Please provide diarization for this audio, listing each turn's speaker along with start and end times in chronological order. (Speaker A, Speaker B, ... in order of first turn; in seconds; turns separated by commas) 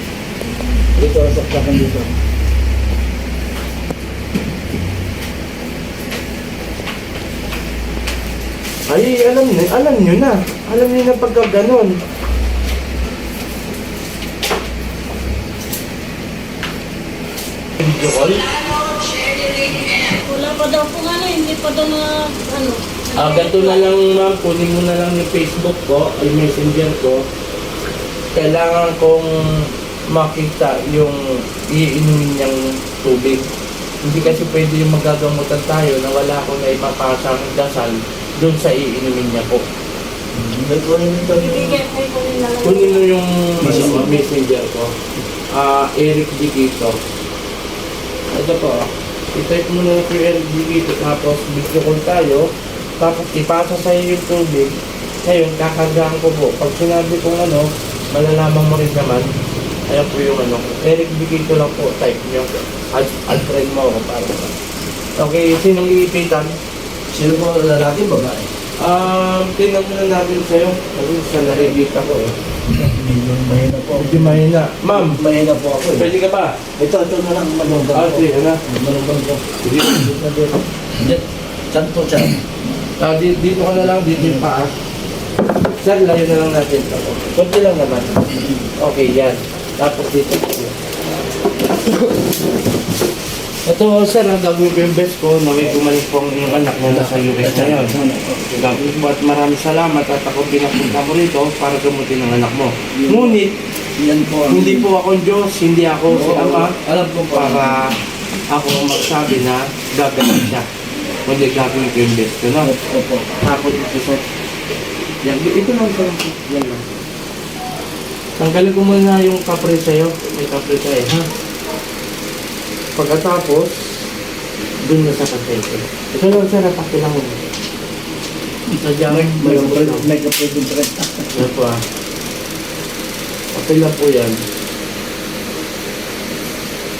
Speaker A: 0.9-2.1, Speaker B: 8.9-11.9, Speaker B: 17.8-18.7, Speaker C: 18.8-23.8, Speaker B: 23.1-27.2, Speaker B: 28.3-33.5, Speaker B: 34.0-39.6, Speaker A: 40.3-41.8, Speaker C: 41.3-43.1, Speaker B: 42.6-44.9, Speaker A: 43.6-44.1, Speaker C: 43.8-44.0, Speaker B: 45.5-47.0, Speaker B: 48.3-59.3, Speaker B: 59.9-64.5, Speaker B: 65.2-66.5, Speaker A: 67.1-68.5, Speaker B: 68.8-72.3, Speaker A: 72.7-76.1, Speaker B: 74.0-75.2, Speaker B: 75.9-76.6, Speaker A: 76.8-82.4, Speaker B: 77.9-78.6, Speaker B: 79.6-80.1, Speaker B: 83.0-84.7, Speaker A: 83.8-84.5, Speaker B: 85.8-88.2, Speaker B: 88.8-90.7, Speaker B: 93.6-98.0, Speaker A: 96.8-98.9, Speaker B: 98.5-103.5, Speaker A: 102.9-103.4, Speaker A: 104.0-104.9, Speaker B: 104.5-107.9, Speaker A: 106.1-108.0, Speaker B: 108.5-110.7, Speaker B: 111.2-112.7, Speaker A: 112.6-113.2, Speaker B: 113.4-114.2, Speaker B: 115.2-116.9, Speaker B: 118.4-121.3, Speaker B: 123.0-123.8, Speaker B: 124.8-127.4, Speaker B: 128.7-130.1, Speaker A: 129.1-131.4, Speaker B: 131.3-131.8, Speaker B: 133.5-134.4